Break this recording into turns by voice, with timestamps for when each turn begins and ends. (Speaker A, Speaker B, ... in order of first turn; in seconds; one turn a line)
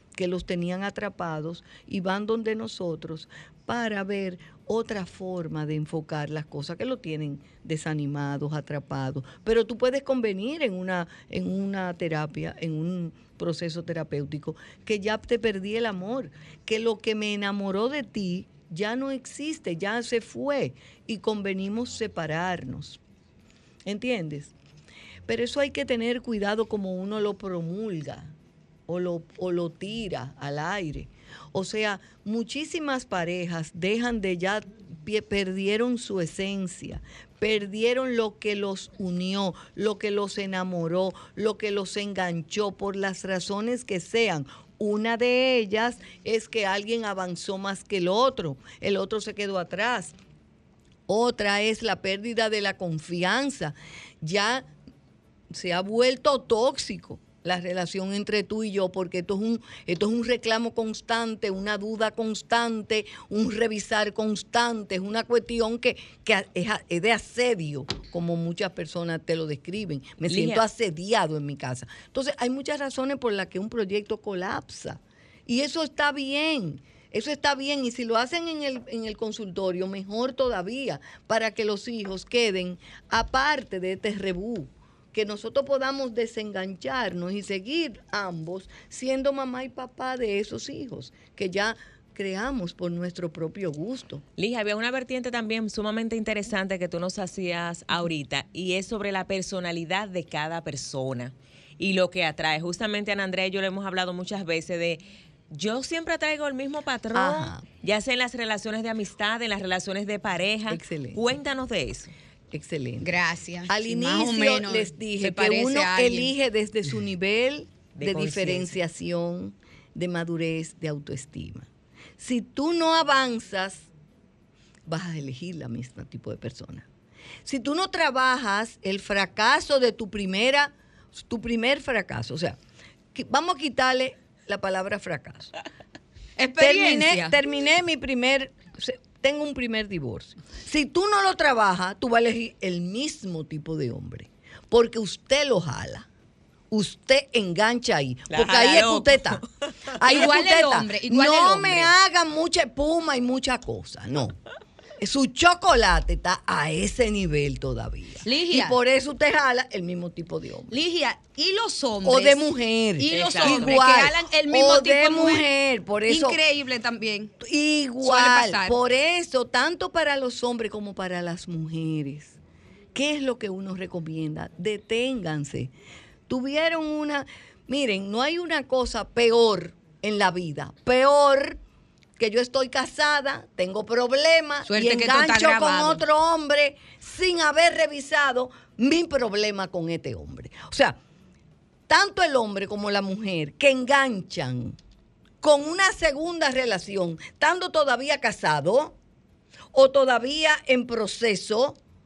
Speaker A: 0.2-23.0
Speaker A: 23.9-24.5
Speaker A: 25.3-28.3
Speaker A: 28.9-50.1
Speaker A: 51.1-54.7
Speaker A: 55.5-94.2
Speaker B: 70.3-70.6
Speaker B: 94.4-112.1
Speaker A: 107.1-107.6
Speaker A: 110.7-111.2
Speaker A: 112.5-113.1
Speaker C: 113.0-116.3
Speaker A: 113.7-121.7
Speaker B: 118.0-118.8
Speaker A: 122.2-123.9
Speaker A: 124.9-126.9
Speaker A: 127.5-132.6
Speaker A: 133.1-135.5
Speaker C: 136.4-137.4
Speaker A: 136.6-146.1
Speaker A: 146.7-149.4
Speaker B: 148.3-149.5
Speaker A: 150.0-154.4
Speaker C: 150.1-151.9
Speaker A: 155.0-160.7
Speaker C: 158.2-158.8
Speaker C: 160.7-165.5
Speaker A: 162.0-166.4
Speaker B: 163.1-163.8
Speaker C: 166.1-167.3
Speaker A: 167.4-172.4
Speaker C: 168.0-168.8
Speaker A: 172.9-175.7
Speaker A: 176.3-181.6
Speaker A: 182.2-191.0
Speaker C: 184.7-186.0
Speaker A: 191.9-194.8
Speaker A: 195.4-199.0
Speaker A: 199.7-201.8